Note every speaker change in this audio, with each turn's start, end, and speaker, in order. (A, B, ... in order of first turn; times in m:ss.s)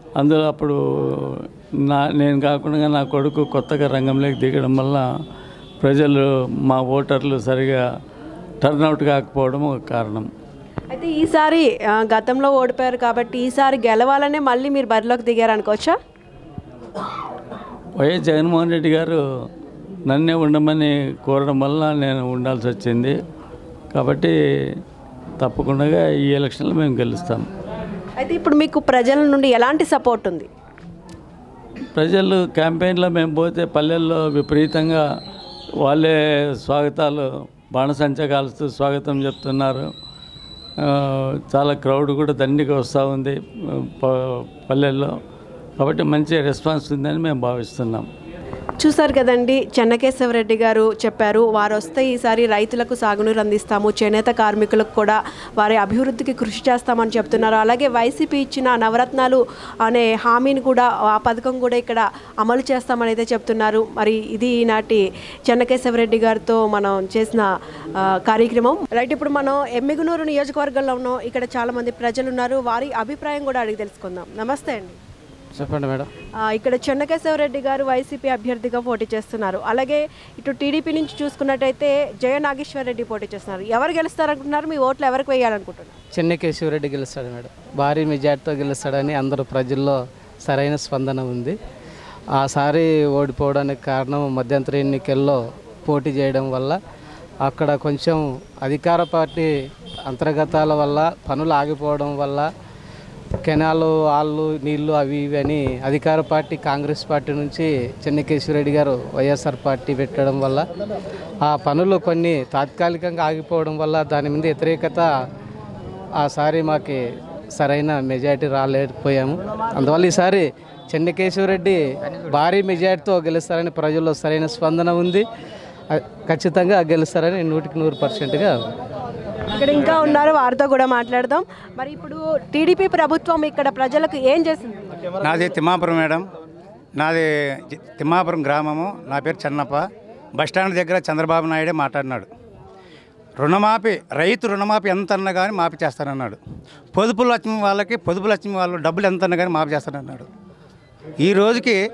0:00.2-0:05.0 A
0:05.8-0:07.8 A
0:08.6-0:10.3 A
0:10.9-0:15.9 B
0:18.0-0:19.2 A
0:20.1-0:23.2 A
0:23.9-0:24.3 A
0:25.4-0:27.5 A
0:28.2-0:30.5 B
0:31.9-0:35.0 A
0:35.8-0:39.9 A
0:40.8-0:45.1 A
0:45.8-0:48.1 A
0:48.8-1:15.0 B
1:15.5-1:16.1 C
1:16.4-1:26.0 B
1:26.1-1:31.6 C
1:32.4-1:36.8 C
1:37.4-1:39.5 C
1:40.1-1:42.5 C
1:43.4-1:50.7 C
1:51.4-1:55.1 C
1:56.2-1:57.0 C
1:57.5-2:05.2 C
2:05.9-2:08.6 C
2:09.5-2:14.8 B
2:15.2-2:16.2 D
2:17.0-2:19.8 D
2:20.4-2:22.3 D
2:23.4-2:26.4 D
2:26.9-2:30.3 D
2:31.2-2:31.8 D